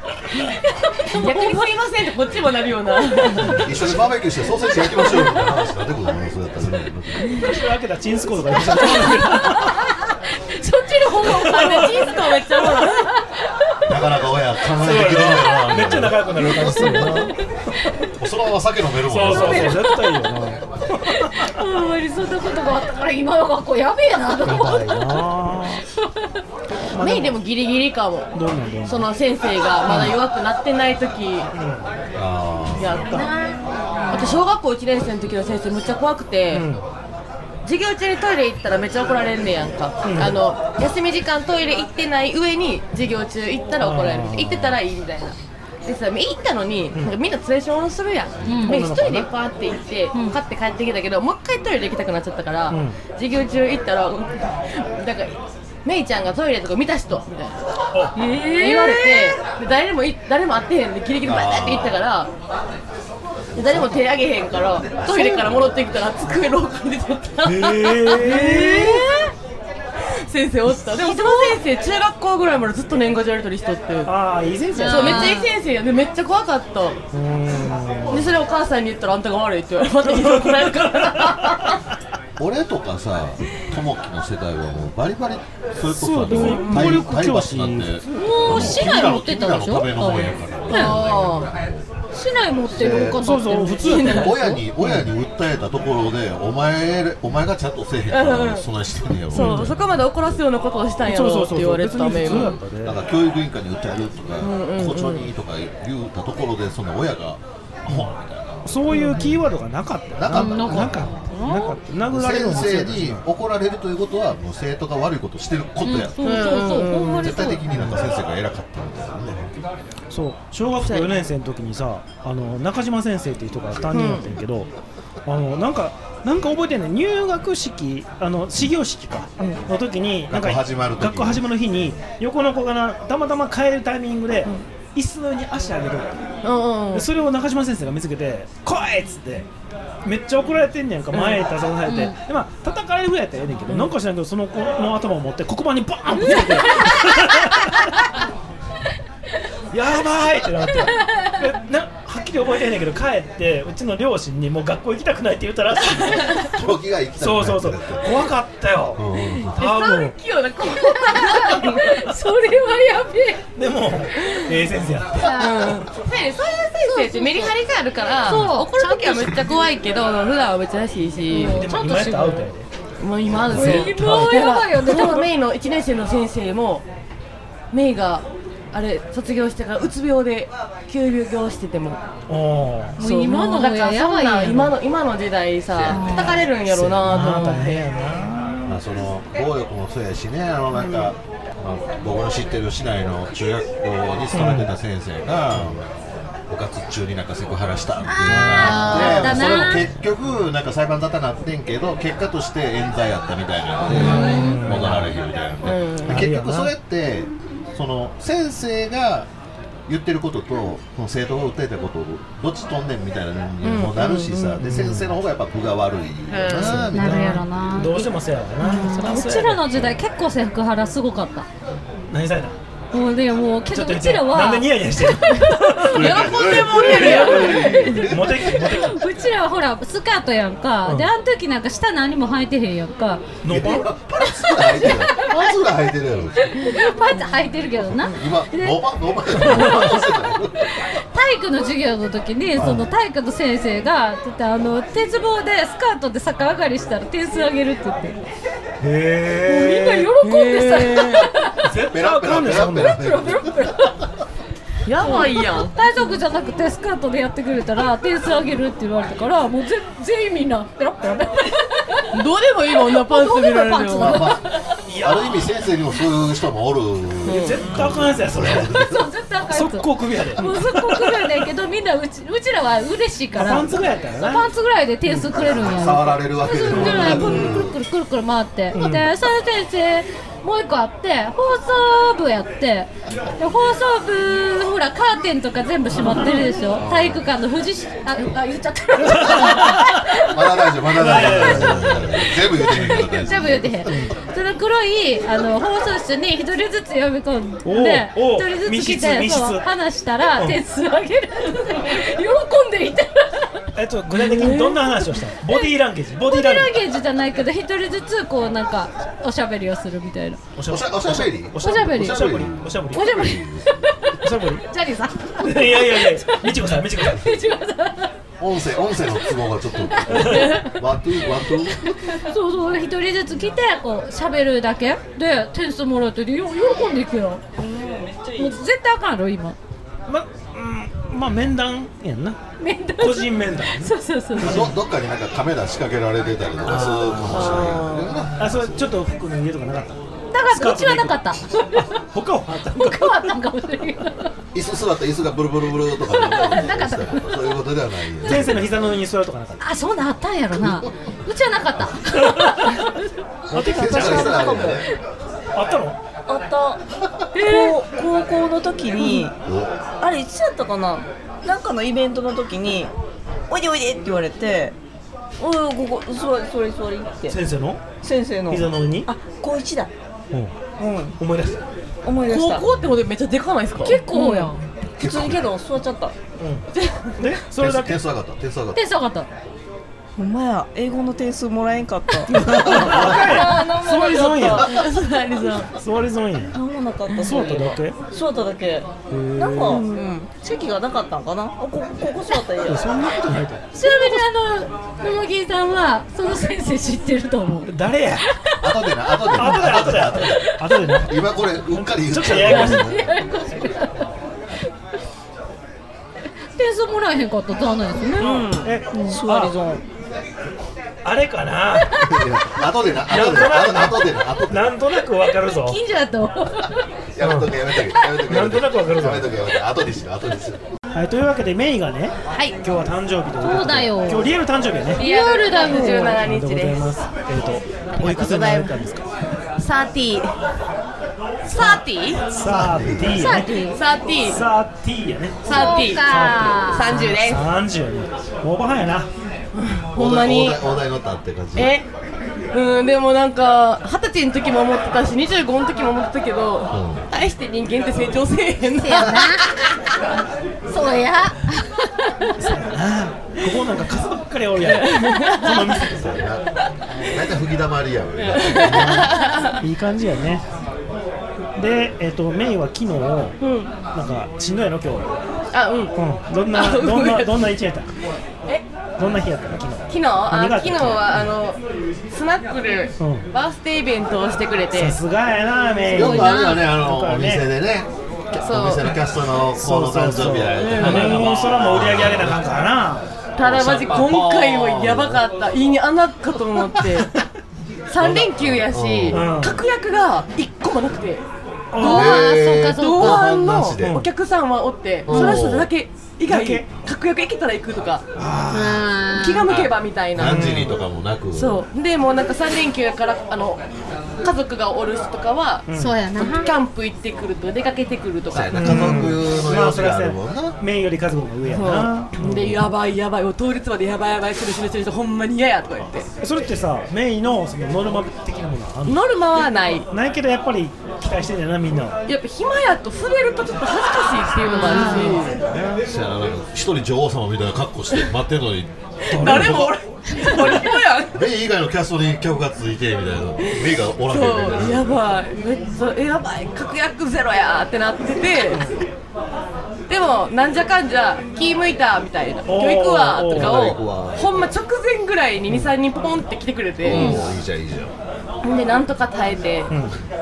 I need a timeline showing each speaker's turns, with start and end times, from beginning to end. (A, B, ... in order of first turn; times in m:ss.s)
0:00.4-0:01.6 A
0:01.1-0:03.6 B
0:03.1-0:03.5 A
0:03.5-0:07.4 C
0:05.0-0:05.3 A
0:07.4-0:09.8 D
0:08.7-0:09.9 A
0:10.6-0:13.3 A
0:11.3-0:11.9 D
0:11.4-0:13.0 B
0:13.9-0:16.9 C
0:14.8-0:17.4 D
0:16.5-0:17.3 A
0:18.2-0:19.8 C
0:19.1-0:21.4 D
0:19.3-0:20.0 A
0:21.1-0:25.1 A
0:24.5-0:25.8 D
0:26.9-0:27.4 D
0:27.0-0:28.3 B
0:28.3-0:29.1 D
0:28.8-0:31.5 B
0:29.9-0:30.1 D
0:31.5-0:31.8 D
0:32.2-0:33.0 C
0:32.8-0:33.4 B
0:33.1-0:34.4 A
0:34.1-0:36.7 B
0:36.5-0:36.8 D
0:37.6-0:57.6 B
0:40.0-0:40.4 D
0:43.8-0:44.8 D
0:48.4-0:48.8 A
0:48.6-0:49.3 D
0:52.7-0:53.0 D
0:58.2-0:59.4 A
0:58.6-1:02.3 B
1:01.2-1:02.0 C
1:03.5-1:04.0 C
1:03.6-1:09.0 B
1:04.9-1:06.0 C
1:07.4-1:09.0 D
1:08.2-1:09.3 A
1:10.3-1:14.1 B
1:10.8-1:11.6 A
1:14.1-1:15.3 D
1:14.8-1:15.5 A
1:14.8-1:17.0 B
1:17.1-1:18.4 D
1:18.1-1:21.8 B
1:20.2-1:20.7 D
1:22.4-1:31.9 C
1:25.9-1:28.8 D
1:26.4-1:27.0 B
1:28.1-1:31.0 A
1:30.7-1:31.5 B
1:32.1-1:34.4 A
1:32.7-1:33.3 C
1:33.2-1:35.1 D
1:33.8-1:34.6 B
1:34.0-1:40.4 C
1:38.1-1:38.7 B
1:39.3-1:42.6 B
1:39.3-1:39.8 D
1:41.0-1:43.0 D
1:42.8-1:48.7 C
1:44.4-1:45.3 B
1:47.9-1:48.1 D
1:48.6-1:53.2 D
1:48.9-1:49.3 A
1:50.2-1:51.2 C
1:50.3-1:51.8 A
1:52.1-1:56.5 C
1:55.8-1:57.6 A
1:56.2-1:57.5 B
1:57.2-1:59.5 C
1:57.7-1:58.0 D
2:00.1-2:04.7 D
2:00.8-2:01.1 B
2:03.9-2:04.4 B
2:05.3-2:16.2 D
2:10.3-2:11.5 C
2:16.4-2:17.1 B
2:16.9-2:19.5 D
2:20.0-2:27.9 D
2:21.9-2:22.2 A
2:26.3-2:27.2 A
2:29.7-2:36.4 D
2:36.2-2:38.1 C
2:37.2-2:40.2 D
2:39.0-2:39.6 C
2:39.5-2:42.0 B
2:40.6-2:43.4 A
2:43.6-2:45.4 D
2:45.2-2:45.9 A
2:45.3-2:51.6 B
2:46.8-2:47.5 A
2:48.2-2:49.6 A
2:51.3-2:52.5 A
2:51.5-2:52.7 D
2:53.0-2:56.8 B
2:53.5-2:54.4 D
2:53.5-2:55.3 A
2:57.7-3:02.0 B
3:02.3-3:03.0 D
3:03.0-3:04.8 A
3:03.0-3:07.9 B
3:05.7-3:06.3 C
3:05.9-3:06.4 A
3:06.7-3:08.8 D
3:08.7-3:15.9 C
3:14.3-3:14.7 D
3:16.5-3:29.3 C
3:18.1-3:19.9 A
3:18.3-3:19.8 D
3:18.6-3:19.5 B
3:23.9-3:25.1 D
3:23.9-3:24.6 A
3:24.0-3:24.4 B
3:25.6-3:26.3 B
3:26.1-3:26.7 D
3:29.9-3:37.4 C
3:33.6-3:34.6 B
3:34.6-3:35.1 D
3:36.3-3:36.8 B
3:36.6-3:39.6 D
3:36.9-3:41.5 A
3:39.7-3:40.0 C
3:42.1-3:42.6 D
3:42.9-3:53.3 A
3:43.7-3:49.0 D
3:45.9-3:48.6 C
3:46.0-3:47.7 B
3:50.8-3:51.1 D
3:53.4-3:53.9 D
3:53.5-3:56.6 C
3:54.4-3:55.6 A
3:56.4-4:00.0 A
3:57.9-4:00.7 C
3:59.4-4:00.0 D
4:01.1-4:08.2 A
4:02.5-4:02.9 C
4:08.8-4:10.1 D
4:09.5-4:11.6 A
4:10.2-4:11.3 B
4:11.6-4:13.0 D
4:11.8-4:14.0 C
4:12.6-4:13.9 A
4:14.9-4:15.7 B
4:15.0-4:22.1 A
4:22.1-4:24.3 B
4:22.9-4:24.4 A
4:24.0-4:29.1 C
4:24.9-4:25.4 D
4:27.2-4:27.7 B
4:27.3-4:28.7 D
4:28.6-4:50.6 A
4:29.5-4:31.0 D
4:33.4-4:34.5 D
4:35.1-4:35.3 D
4:35.3-4:37.8 C
4:36.7-4:37.4 D
4:38.7-4:39.1 D
4:46.8-4:47.3 C
4:49.0-4:50.0 D
4:50.2-4:53.9 C
4:51.0-4:52.2 D
4:52.3-5:03.6 A
4:53.9-4:54.1 D
4:57.6-4:59.6 D
5:03.8-5:06.7 D
5:04.4-5:04.7 B
5:05.5-5:10.4 A
5:10.6-5:13.0 D
5:10.7-5:13.9 C
5:11.6-5:12.2 A
5:12.9-5:18.1 A
5:14.2-5:14.6 D
5:15.4-5:17.4 D
5:18.4-5:21.8 C
5:19.8-5:20.8 A
5:20.2-5:20.4 D
5:21.5-5:27.4 A
5:27.6-5:28.6 E
5:28.4-5:29.6 A
5:30.1-5:32.4 D
5:32.6-5:34.6 A
5:33.0-5:34.7 D
5:34.4-5:38.7 C
5:36.7-5:37.5 D
5:37.3-5:38.2 B
5:38.4-5:43.3 D
5:40.3-5:41.8 A
5:42.7-5:44.3 A
5:44.5-5:48.7 C
5:46.1-5:47.4 A
5:48.3-5:49.6 D
5:49.6-5:53.0 A
5:50.6-5:51.0 C
5:53.5-5:54.9 C
5:53.5-5:54.4 D
5:53.8-5:54.8 E
5:55.6-5:56.0 D
5:56.3-5:56.8 E
5:57.4-5:59.4 E
5:57.4-5:57.8 A
5:59.4-5:59.8 C
6:00.0-6:02.9 E
6:03.5-6:04.8 E
6:05.4-6:07.4 E
6:07.3-6:07.8 D
6:08.0-6:09.9 E
6:08.5-6:09.1 D
6:10.3-6:11.6 D
6:10.8-6:11.2 E
6:12.0-6:12.7 E
6:12.2-6:14.0 B
6:13.8-6:14.6 A
6:14.1-6:16.2 E
6:15.0-6:15.5 C
6:16.4-6:16.6 D
6:16.7-6:17.1 B
6:17.2-6:18.0 D
6:17.6-6:18.8 C
6:18.7-6:19.3 A
6:20.2-6:24.8 E
6:22.3-6:24.7 D
6:24.6-6:25.7 B
6:25.8-6:26.6 D
6:26.5-6:32.8 E
6:27.2-6:28.0 D
6:29.1-6:29.8 D
6:32.7-6:34.2 D
6:33.8-6:37.7 A
6:37.7-6:38.3 D
6:38.5-6:39.6 A
6:38.6-6:43.2 C
6:39.4-6:41.1 D
6:40.3-6:41.0 A
6:41.7-6:43.0 D
6:42.3-6:44.0 A
6:46.6-6:49.2 A
6:48.2-6:49.6 D
6:48.2-6:49.8 E
6:51.0-6:52.0 D
6:52.0-6:54.8 C
6:53.1-6:55.8 D
6:55.5-6:56.9 A
6:57.1-7:00.6 C
6:57.2-6:57.5 D
6:58.3-6:59.3 D
7:00.9-7:05.0 D
7:02.3-7:02.6 B
7:03.4-7:04.3 A
7:05.0-7:06.2 A
7:05.0-7:06.9 B
7:06.2-7:09.0 D
7:08.0-7:08.8 B
7:09.6-7:10.3 B
7:11.5-7:12.2 B
7:11.5-7:13.5 D
7:12.4-7:13.2 C
7:13.0-7:13.8 A
7:13.7-7:14.4 B
7:14.3-7:19.1 D
7:15.4-7:17.4 B
7:15.5-7:17.0 A
7:19.6-7:20.6 B
7:20.0-7:21.8 C
7:21.6-7:21.9 B
7:22.5-7:29.8 B
7:26.7-7:27.0 C
7:28.8-7:29.5 A
7:30.7-7:31.9 A
7:32.4-7:36.0 D
7:34.6-7:35.7 B
7:35.8-7:36.5 C
7:37.0-7:39.2 C
7:38.2-7:39.6 B
7:38.7-7:40.4 D
7:41.6-7:43.4 D
7:43.4-7:43.7 B
7:43.9-7:45.1 D
7:45.5-7:46.0 B
7:46.0-7:47.9 D
7:46.5-7:47.5 B
7:49.0-7:51.3 D
7:49.9-7:51.6 B
7:52.1-7:55.0 B
7:53.0-7:53.3 D
7:54.8-7:57.5 D
7:55.9-8:02.5 C
7:56.0-7:56.5 A
7:58.4-7:59.0 B
7:59.6-8:03.1 D
8:00.6-8:01.2 B
8:03.4-8:07.1 B
8:03.4-8:05.2 C
8:07.9-8:11.2 B
8:08.0-8:09.3 C
8:09.1-8:09.6 D
8:11.7-8:12.1 D
8:11.8-8:13.2 A
8:11.8-8:18.0 B
8:11.8-8:14.0 C
8:13.8-8:14.1 D
8:15.1-8:15.7 C
8:15.1-8:15.4 A
8:16.3-8:16.6 D
8:18.2-8:18.8 D
8:18.5-8:19.5 A
8:19.2-8:20.7 B
8:19.5-8:21.6 C
8:20.2-8:20.7 D
8:21.3-8:23.6 B
8:24.2-8:29.0 B
8:25.7-8:26.0 D
8:25.7-8:26.5 A
8:28.3-8:30.6 C
8:28.5-8:32.6 D
8:31.6-8:36.1 B
8:36.2-8:39.0 D
8:38.9-8:39.9 B
8:39.9-8:42.0 D
8:42.1-8:45.4 B
8:44.4-8:45.3 A
8:44.9-8:45.8 D
8:45.8-8:49.7 C
8:49.1-8:49.7 D
8:49.1-8:51.2 B
8:51.1-8:55.0 C
8:53.4-8:58.6 B
8:59.9-9:07.2 B
9:02.5-9:03.7 D
9:03.3-9:04.4 C
9:06.8-9:07.9 C
9:08.4-9:09.7 B
9:09.7-9:10.0 D